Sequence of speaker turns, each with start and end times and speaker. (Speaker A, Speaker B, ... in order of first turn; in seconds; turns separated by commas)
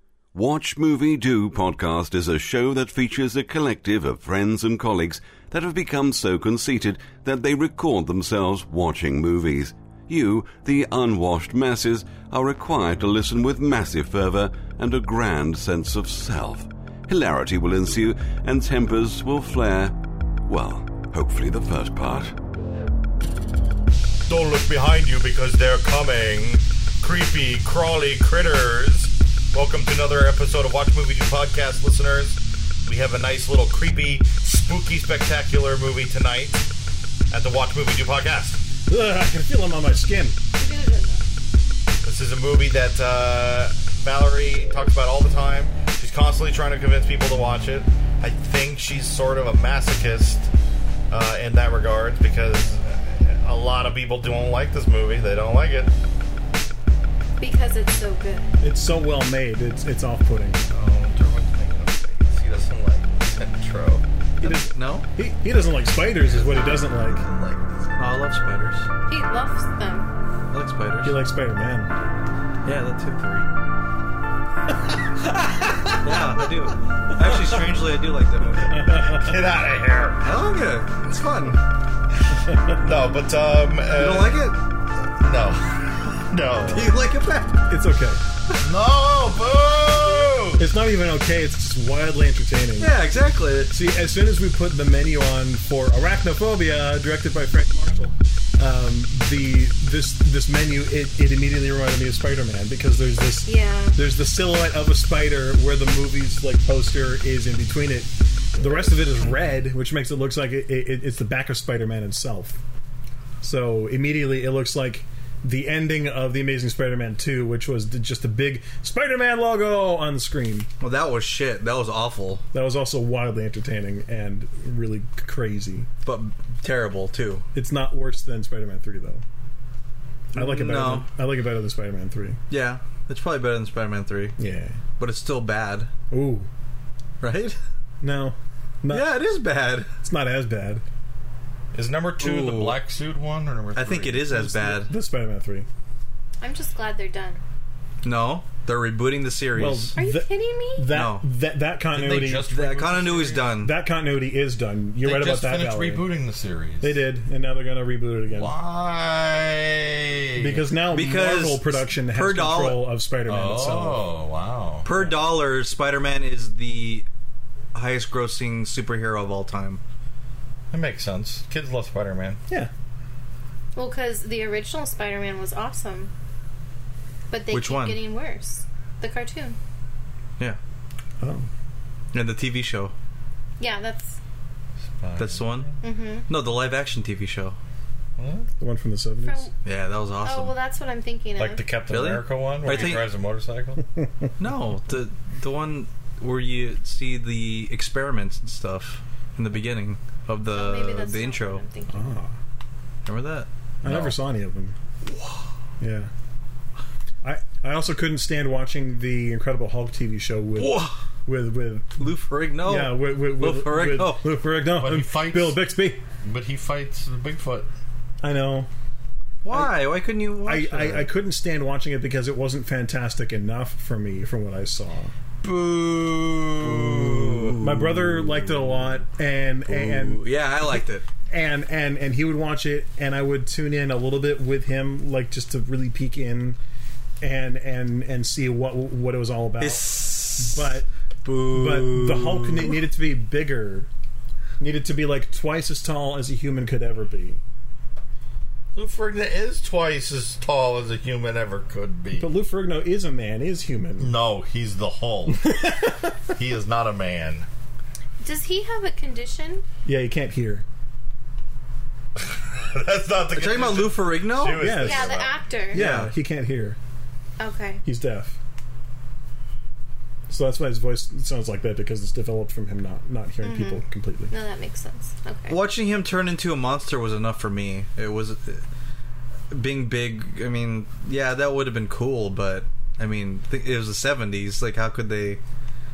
Speaker A: 0.3-19.9, Speaker A: 20.5-22.3, Speaker B: 24.3-36.7, Speaker B: 37.3-38.6, Speaker C: 38.9-40.4, Speaker D: 40.6-41.2, Speaker B: 42.0-50.5, Speaker B: 51.1-55.9, Speaker D: 57.4-58.5, Speaker C: 58.6-60.6, Speaker B: 60.7-64.0, Speaker C: 64.4-67.3, Speaker E: 64.4-65.0, Speaker B: 66.2-68.0, Speaker E: 68.0-68.9, Speaker D: 69.1-70.1, Speaker E: 70.5-71.2, Speaker C: 71.0-71.9, Speaker E: 72.6-73.5, Speaker C: 74.8-76.0, Speaker E: 76.0-78.9, Speaker C: 77.3-77.5, Speaker C: 78.7-79.3, Speaker B: 78.7-80.3, Speaker E: 80.2-81.6, Speaker C: 82.5-82.8, Speaker B: 82.8-84.6, Speaker E: 83.9-84.6, Speaker B: 85.2-87.0, Speaker E: 86.6-87.6, Speaker C: 87.7-88.2, Speaker B: 88.6-90.7, Speaker C: 90.6-93.0, Speaker E: 92.8-93.7, Speaker C: 93.7-112.6, Speaker D: 103.5-104.0, Speaker C: 113.4-120.7, Speaker E: 120.8-122.4, Speaker C: 122.5-125.9, Speaker E: 126.0-127.5, Speaker C: 127.5-129.2, Speaker C: 130.3-132.4, Speaker E: 130.3-131.1, Speaker E: 132.5-134.4, Speaker C: 134.4-134.8, Speaker E: 135.0-135.9, Speaker C: 136.1-136.5, Speaker E: 137.2-137.6, Speaker C: 138.0-139.2, Speaker E: 138.9-139.9, Speaker C: 140.0-140.8, Speaker B: 141.7-144.3, Speaker E: 142.2-142.8, Speaker E: 143.8-144.9, Speaker C: 144.3-145.7, Speaker D: 146.4-147.4, Speaker E: 148.0-149.9, Speaker C: 149.6-152.4, Speaker D: 150.0-150.9, Speaker E: 150.9-151.3, Speaker B: 151.9-153.6, Speaker E: 152.5-153.7, Speaker C: 153.6-156.1, Speaker B: 155.0-157.0, Speaker C: 156.8-158.5, Speaker B: 158.3-160.7, Speaker C: 160.4-164.1, Speaker E: 160.9-162.9, Speaker B: 163.3-164.9, Speaker E: 164.8-167.1, Speaker C: 164.9-165.2, Speaker E: 167.7-169.8, Speaker B: 170.7-172.4, Speaker D: 173.8-176.1, Speaker D: 177.3-179.6, Speaker E: 177.5-178.0, Speaker C: 181.2-181.5, Speaker E: 182.1-182.9, Speaker D: 183.6-184.2, Speaker B: 184.9-185.8, Speaker E: 185.2-185.8, Speaker D: 185.8-186.3, Speaker E: 186.3-187.6, Speaker B: 188.2-188.5, Speaker C: 188.6-189.5, Speaker D: 189.2-189.5, Speaker E: 189.6-190.5, Speaker D: 190.2-191.6, Speaker B: 191.4-193.8, Speaker E: 191.9-193.1, Speaker D: 192.7-193.0, Speaker E: 194.4-201.6, Speaker D: 200.5-202.1, Speaker C: 201.9-202.3, Speaker E: 203.1-203.5, Speaker C: 203.8-204.8, Speaker B: 203.9-204.1, Speaker E: 205.1-205.4, Speaker C: 205.8-206.1, Speaker C: 207.2-216.0, Speaker E: 210.6-211.0, Speaker E: 212.0-214.3, Speaker B: 214.7-215.6, Speaker B: 216.2-217.7, Speaker C: 218.2-218.7, Speaker E: 219.4-221.1, Speaker C: 219.5-219.8, Speaker C: 220.4-225.1, Speaker E: 225.4-228.5, Speaker B: 226.7-227.5, Speaker C: 227.6-236.6, Speaker E: 229.7-231.1, Speaker C: 237.2-239.8, Speaker E: 239.6-240.7, Speaker C: 240.4-240.9, Speaker E: 241.2-242.8, Speaker C: 241.5-243.9, Speaker C: 244.6-247.4, Speaker B: 248.8-252.3, Speaker C: 252.2-254.1, Speaker B: 254.0-255.8, Speaker C: 255.3-256.1, Speaker B: 256.3-257.5, Speaker D: 258.2-259.6, Speaker C: 259.8-260.6, Speaker B: 262.1-265.4, Speaker E: 263.3-264.7, Speaker C: 264.6-265.1, Speaker D: 264.8-265.8, Speaker C: 265.7-266.8, Speaker E: 265.7-266.1, Speaker D: 267.4-267.8, Speaker C: 267.8-268.4, Speaker C: 270.3-274.3, Speaker D: 273.4-275.6, Speaker E: 275.5-278.6, Speaker E: 279.5-285.4